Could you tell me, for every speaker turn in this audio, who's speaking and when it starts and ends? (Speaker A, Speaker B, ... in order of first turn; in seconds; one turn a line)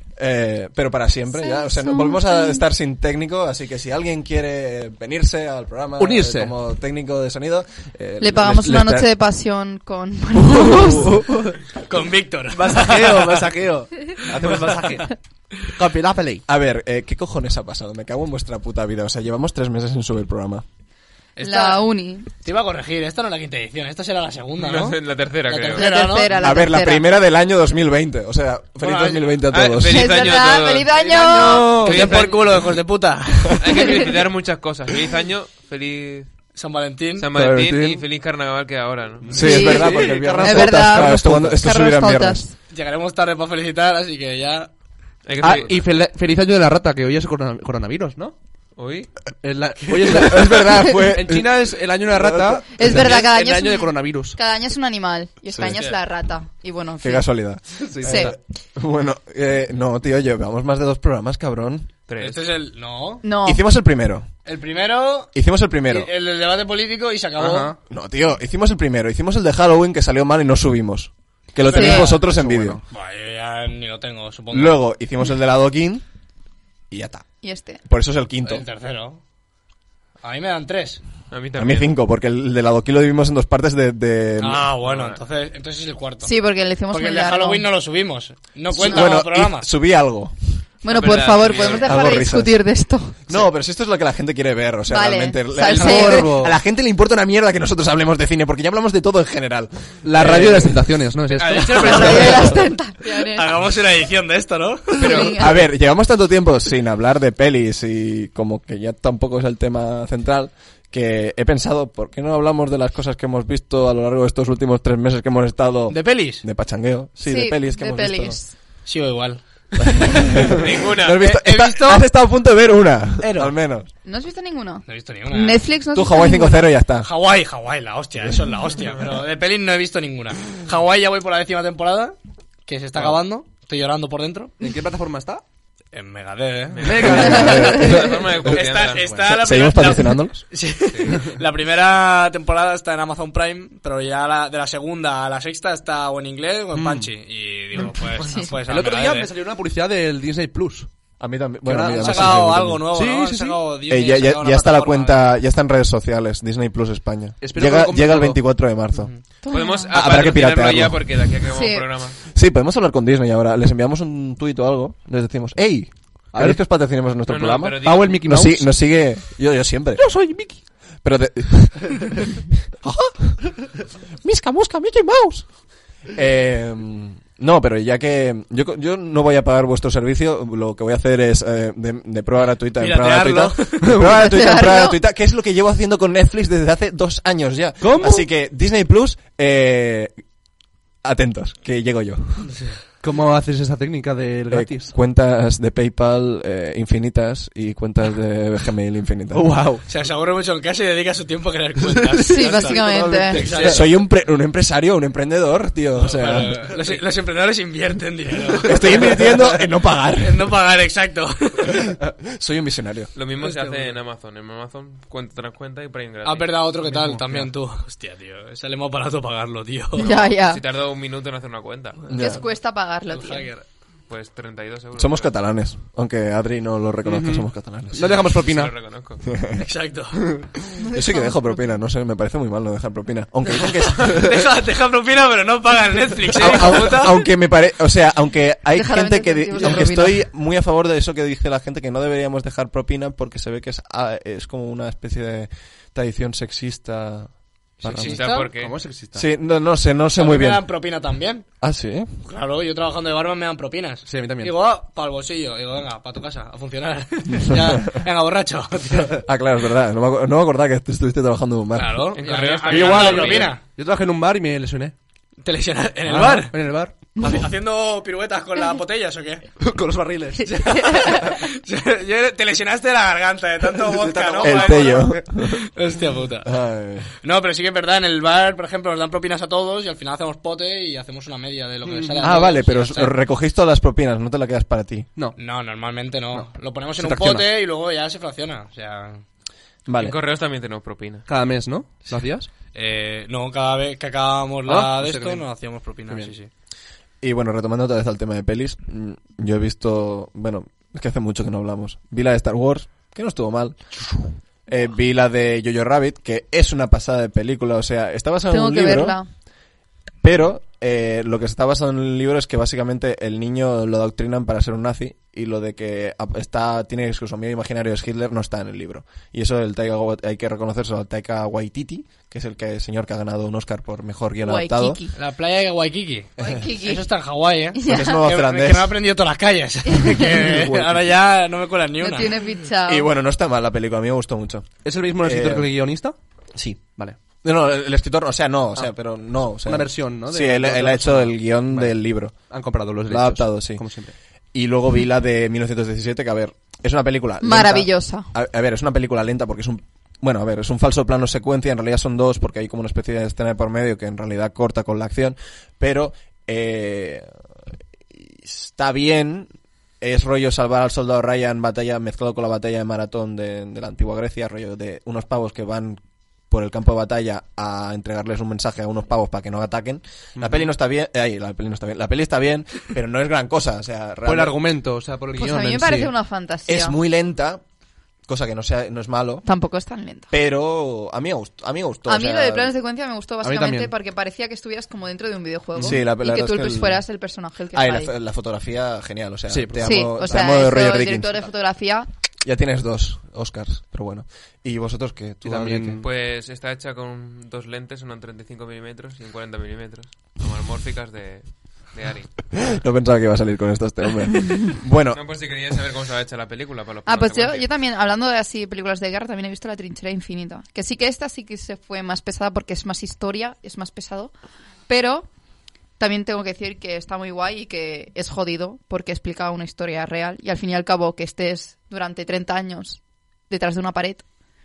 Speaker A: 0.1-9.1
Speaker B: 1.4-2.6
Speaker C: 6.0-6.5
Speaker B: 8.2-11.2
Speaker A: 10.5-11.1
Speaker C: 10.6-11.5
Speaker D: 11.9-13.3
Speaker C: 12.5-16.4
Speaker A: 16.5-20.6
Speaker D: 21.4-26.3
Speaker B: 21.4-22.3
Speaker E: 24.6-25.9
Speaker B: 25.7-27.1
Speaker A: 26.3-30.2
Speaker D: 28.8-29.4
Speaker E: 29.5-30.9
Speaker B: 29.9-31.8
Speaker C: 30.9-32.1
Speaker D: 31.3-33.9
Speaker E: 31.7-32.6
Speaker E: 33.6-36.3
Speaker D: 36.5-37.3
Speaker E: 37.1-39.3
Speaker A: 37.3-38.0
Speaker C: 39.2-41.5
Speaker A: 39.3-42.4
Speaker B: 39.4-42.5
Speaker D: 42.7-44.7
Speaker E: 45.2-45.8
Speaker C: 45.4-48.3
Speaker E: 48.8-49.1
Speaker C: 49.4-54.4
Speaker A: 50.0-53.1
Speaker B: 52.7-57.3
Speaker A: 55.5-55.8
Speaker A: 57.0-61.9
Speaker C: 57.8-58.4
Speaker B: 58.0-58.3
Speaker E: 62.1-62.4
Speaker D: 62.2-63.2
Speaker B: 63.2-63.6
Speaker A: 63.4-64.3
Speaker D: 64.5-65.3
Speaker A: 65.3-66.1
Speaker D: 65.9-67.7
Speaker C: 67.4-67.8
Speaker A: 67.9-72.8
Speaker D: 71.6-72.2
Speaker B: 71.7-72.1
Speaker C: 72.2-72.8
Speaker D: 72.9-74.8
Speaker A: 74.5-76.0
Speaker A: 76.9-77.2
Speaker B: 77.4-77.8
Speaker A: 77.8-78.6
Speaker D: 78.4-79.2
Speaker D: 80.2-81.0
Speaker E: 81.3-81.9
Speaker A: 81.5-84.7
Speaker D: 84.4-86.3
Speaker E: 84.8-85.2
Speaker B: 86.2-87.7
Speaker D: 86.9-89.7
Speaker A: 88.7-90.6
Speaker B: 88.8-89.1
Speaker B: 90.8-93.2
Speaker E: 90.9-92.2
Speaker A: 91.5-92.6
Speaker A: 93.3-100.9
Speaker B: 94.9-96.4
Speaker C: 95.7-96.5
Speaker C: 100.0-102.6
Speaker E: 101.3-102.0
Speaker D: 101.3-105.3
Speaker B: 101.8-103.5
Speaker C: 105.0-105.4
Speaker A: 105.0-118.4
Speaker B: 105.0-105.5
Speaker D: 115.9-116.4
Speaker B: 117.2-118.5
Speaker D: 118.8-120.6
Speaker A: 119.8-123.9
Speaker E: 120.4-121.2
Speaker D: 121.1-122.1
Speaker D: 123.2-123.5
Speaker B: 124.0-126.7
Speaker D: 124.8-125.7
Speaker A: 125.9-127.1
Speaker D: 127.0-134.5
Speaker C: 132.9-133.2
Speaker C: 134.6-135.4
Speaker D: 135.9-149.3
Speaker E: 136.7-139.1
Speaker C: 136.8-137.9
Speaker A: 137.0-138.6
Speaker A: 139.2-140.4
Speaker C: 146.7-147.1
Speaker B: 148.2-148.5
Speaker C: 148.7-150.9
Speaker A: 151.2-152.8
Speaker C: 151.7-153.7
Speaker D: 151.9-155.4
Speaker A: 153.9-159.1
Speaker C: 157.4-158.4
Speaker E: 159.4-162.2
Speaker B: 159.5-159.9
Speaker A: 159.9-161.0
Speaker B: 161.5-161.9
Speaker A: 162.3-170.0
Speaker C: 166.3-166.6
Speaker E: 167.3-168.2
Speaker C: 167.8-168.7
Speaker C: 169.9-170.6
Speaker A: 171.0-173.6
Speaker A: 174.2-175.5
Speaker A: 176.1-190.1
Speaker D: 182.8-183.9
Speaker C: 183.8-184.2
Speaker B: 184.1-185.0
Speaker C: 187.8-188.2
Speaker A: 191.0-192.5
Speaker C: 193.0-194.9
Speaker A: 194.5-199.5
Speaker C: 199.3-199.8
Speaker D: 199.9-202.8
Speaker C: 201.8-203.9
Speaker B: 202.2-203.4
Speaker A: 202.7-206.6
Speaker D: 203.3-203.8
Speaker D: 206.0-209.6
Speaker A: 208.7-210.4
Speaker C: 208.8-209.4
Speaker D: 210.2-211.9
Speaker A: 211.7-213.1
Speaker E: 213.1-216.6
Speaker D: 213.4-213.9
Speaker D: 216.2-220.1
Speaker C: 216.8-217.4
Speaker E: 219.9-222.1
Speaker B: 220.0-220.6
Speaker A: 222.1-222.4
Speaker B: 222.1-223.5
Speaker D: 223.1-223.6
Speaker E: 224.1-225.3
Speaker A: 225.0-228.2
Speaker C: 227.1-228.7
Speaker E: 228.3-229.2
Speaker A: 229.3-229.6
Speaker D: 229.6-230.2
Speaker B: 230.8-231.6
Speaker A: 230.9-234.3
Speaker D: 233.6-237.2
Speaker A: 236.3-248.2
Speaker B: 238.7-240.2
Speaker D: 247.8-248.5
Speaker E: 248.0-248.8
Speaker C: 248.5-249.3
Speaker A: 249.1-250.7
Speaker D: 250.2-251.5
Speaker A: 251.6-252.1
Speaker D: 252.2-259.1
Speaker C: 254.1-254.5
Speaker A: 257.5-257.8
Speaker A: 259.2-262.0
Speaker D: 261.7-263.6
Speaker E: 262.2-263.6
Speaker C: 262.2-264.9
Speaker D: 265.4-269.4
Speaker C: 266.1-267.4
Speaker C: 269.6-271.3
Speaker D: 270.7-276.5
Speaker C: 273.8-275.2
Speaker A: 274.4-275.6
Speaker A: 276.4-277.1
Speaker D: 277.2-283.1
Speaker C: 281.8-282.4
Speaker A: 282.2-285.1
Speaker D: 285.4-289.2
Speaker C: 286.3-287.5
Speaker A: 289.9-290.1
Speaker E: 290.0-291.3
Speaker C: 291.3-292.5
Speaker D: 292.7-296.5
Speaker C: 294.7-295.4
Speaker A: 297.2-303.8
Speaker A: 304.7-309.2
Speaker B: 308.5-309.3
Speaker A: 310.2-325.0
Speaker B: 324.4-325.1
Speaker D: 325.1-332.4
Speaker B: 326.4-327.0
Speaker B: 327.7-328.2
Speaker A: 327.8-328.9
Speaker B: 329.9-330.3
Speaker A: 330.2-331.1
Speaker B: 332.0-333.1
Speaker A: 332.8-335.7
Speaker C: 334.8-336.1
Speaker A: 336.5-342.5
Speaker C: 336.9-337.2
Speaker C: 339.6-342.0
Speaker C: 342.5-344.1
Speaker A: 343.1-343.8
Speaker A: 344.5-357.3
Speaker B: 347.4-348.3
Speaker A: 358.1-359.5
Speaker A: 360.0-374.6
Speaker C: 370.4-370.7
Speaker C: 374.2-376.1
Speaker B: 375.3-377.0
Speaker A: 376.7-377.6
Speaker A: 378.3-379.4
Speaker B: 379.4-380.3
Speaker A: 380.3-382.7
Speaker B: 382.1-388.1
Speaker C: 383.4-383.9
Speaker A: 385.8-387.0
Speaker A: 387.7-391.3
Speaker C: 389.5-390.6
Speaker B: 389.8-392.1
Speaker A: 392.4-396.0
Speaker C: 395.4-396.1
Speaker E: 396.0-402.7
Speaker A: 402.6-405.2
Speaker E: 405.1-407.6
Speaker B: 407.1-414.3
Speaker B: 414.9-415.3
Speaker B: 416.0-424.2